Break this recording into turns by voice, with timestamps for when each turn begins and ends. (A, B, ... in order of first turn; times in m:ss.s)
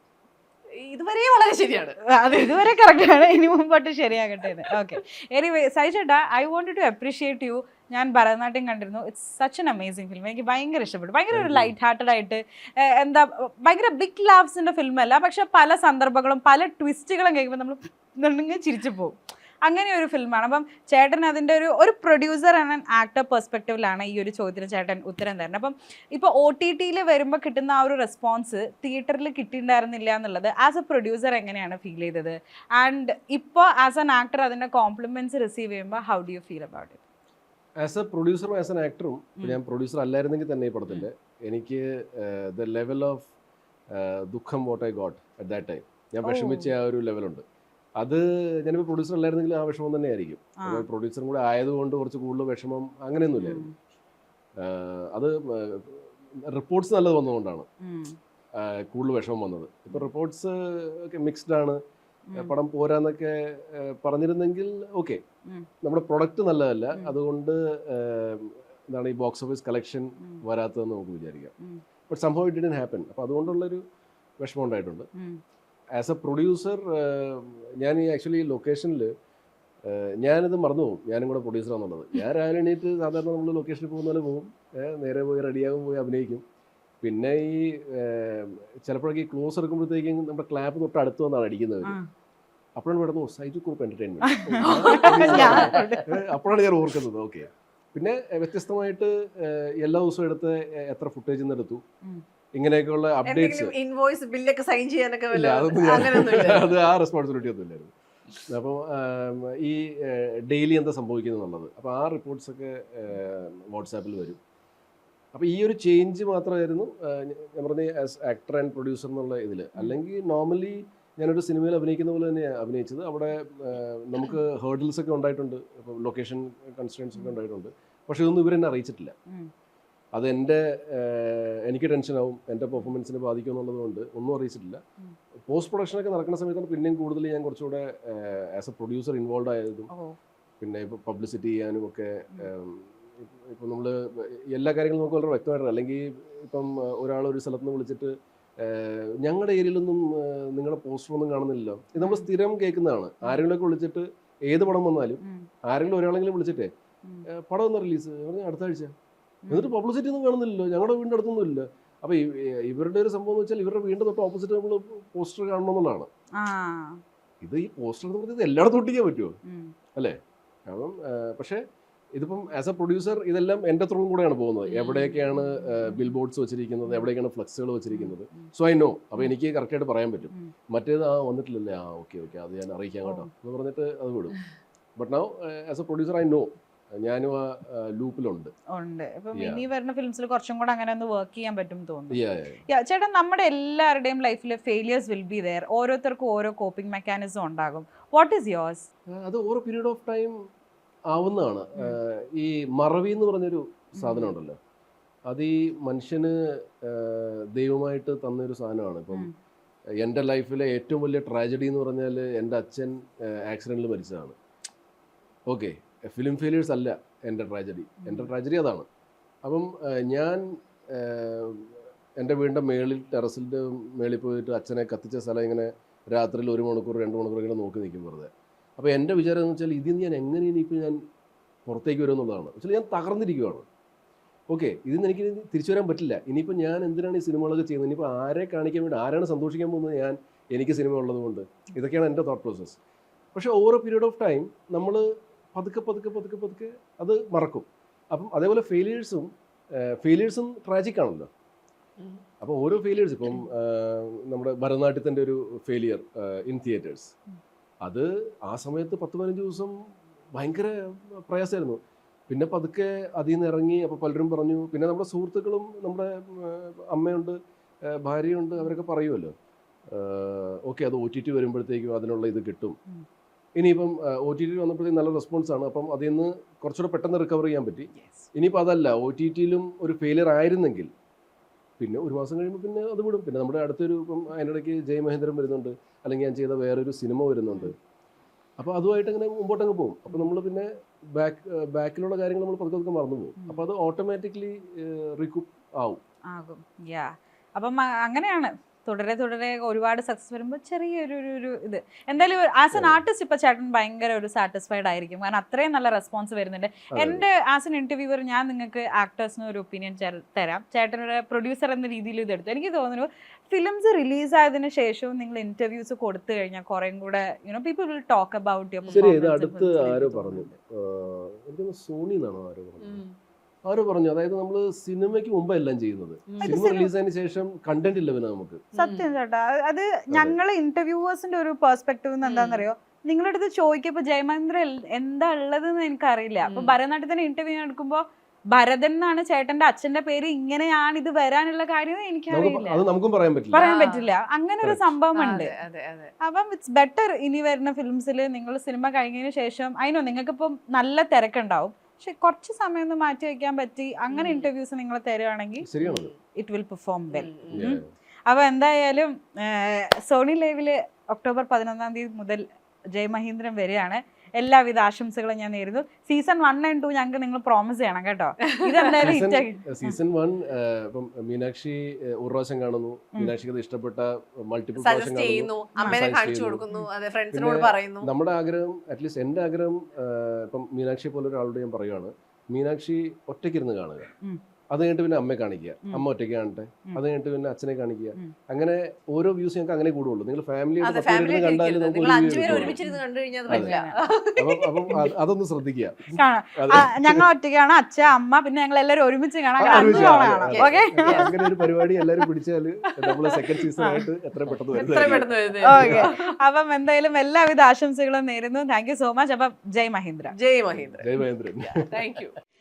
0:00.8-0:02.4 A
0:02.1-0:37.0 B
0:11.3-0:11.7 C
0:37.8-0:43.3 C
0:43.9-0:47.4 C
0:46.2-0:46.7 B
0:48.0-0:53.6 C
0:50.6-0:50.9 B
0:53.4-0:53.7 B
0:54.6-0:57.7 C
0:57.8-0:58.2 B
0:58.6-1:01.8 C
1:02.4-1:05.2 C
1:05.8-1:11.5 C
1:12.1-1:13.8 C
1:14.4-1:15.1 C
1:15.9-1:19.1 C
1:19.8-1:26.4 C
1:27.0-1:32.0 C
1:32.8-1:41.8 C
1:34.3-1:36.0 B
1:34.6-1:35.7 A
1:42.5-1:43.7 C
1:43.3-1:46.7 A
1:45.3-1:47.9 C
1:48.5-1:54.4 C
1:55.3-2:09.1 C
2:10.1-2:14.8 C
2:15.5-2:19.9 C
2:19.9-2:20.2 B
2:20.6-2:36.7 C
2:32.0-2:32.2 B
2:37.3-2:38.9 C
2:39.5-2:46.1 C
2:46.4-2:47.0 B
2:47.4-2:49.4 C
2:49.4-2:49.7 B
2:50.0-2:51.6 C
2:52.1-3:04.4 C
2:54.7-2:56.1 B
2:57.9-2:58.5 B
3:05.0-3:08.5 C
3:08.7-3:12.2 B
3:09.3-3:09.6 C
3:12.1-3:12.6 C
3:12.7-3:18.9 B
3:19.2-3:20.4 C
3:21.1-3:24.6 C
3:24.0-3:24.3 B
3:25.3-3:29.3 C
3:30.0-3:34.4 C
3:35.5-3:38.9 C
3:38.0-3:38.3 B
3:39.4-3:51.0 C
3:51.6-3:53.6 C
3:54.5-4:02.8 C
4:03.3-4:11.3 C
4:12.4-4:17.1 C
4:17.8-4:19.7 C
4:20.3-4:29.3 C
4:29.9-4:32.8 C
4:33.6-4:40.9 C
4:38.0-4:38.3 B
4:41.8-4:47.7 C
4:48.6-4:56.0 C
4:56.3-5:20.5 B
5:02.7-5:03.0 C
5:06.9-5:07.2 C
5:18.9-5:23.0 C
5:22.8-5:23.1 A
5:23.7-5:28.7 C
5:26.3-5:26.6 A
5:26.4-5:26.9 B
5:28.7-5:29.1 A
5:28.8-5:42.8 B
5:32.2-5:32.6 A
5:36.5-5:36.7 A
5:42.3-5:43.6 C
5:43.5-5:45.5 B
5:43.6-5:44.0 A
5:45.2-5:46.1 A
5:46.2-5:55.7 B
5:54.1-5:54.5 A
5:55.6-5:56.1 C
5:55.8-5:56.2 A
5:56.4-6:09.9 B
5:57.1-5:57.6 A
5:57.5-5:57.8 C
6:09.0-6:16.6 C
6:14.8-6:18.1 A
6:17.3-6:24.1 C
6:24.7-6:32.8 C
6:30.8-6:35.0 A
6:32.4-6:33.9 B
6:33.5-6:33.7 C
6:34.4-6:37.2 C
6:36.1-6:41.3 B
6:39.6-6:41.4 A
6:39.6-6:46.0 C
6:43.0-6:43.4 A
6:44.7-6:46.2 A
6:45.7-6:50.3 B
6:50.4-6:52.4 A
6:50.7-6:51.8 C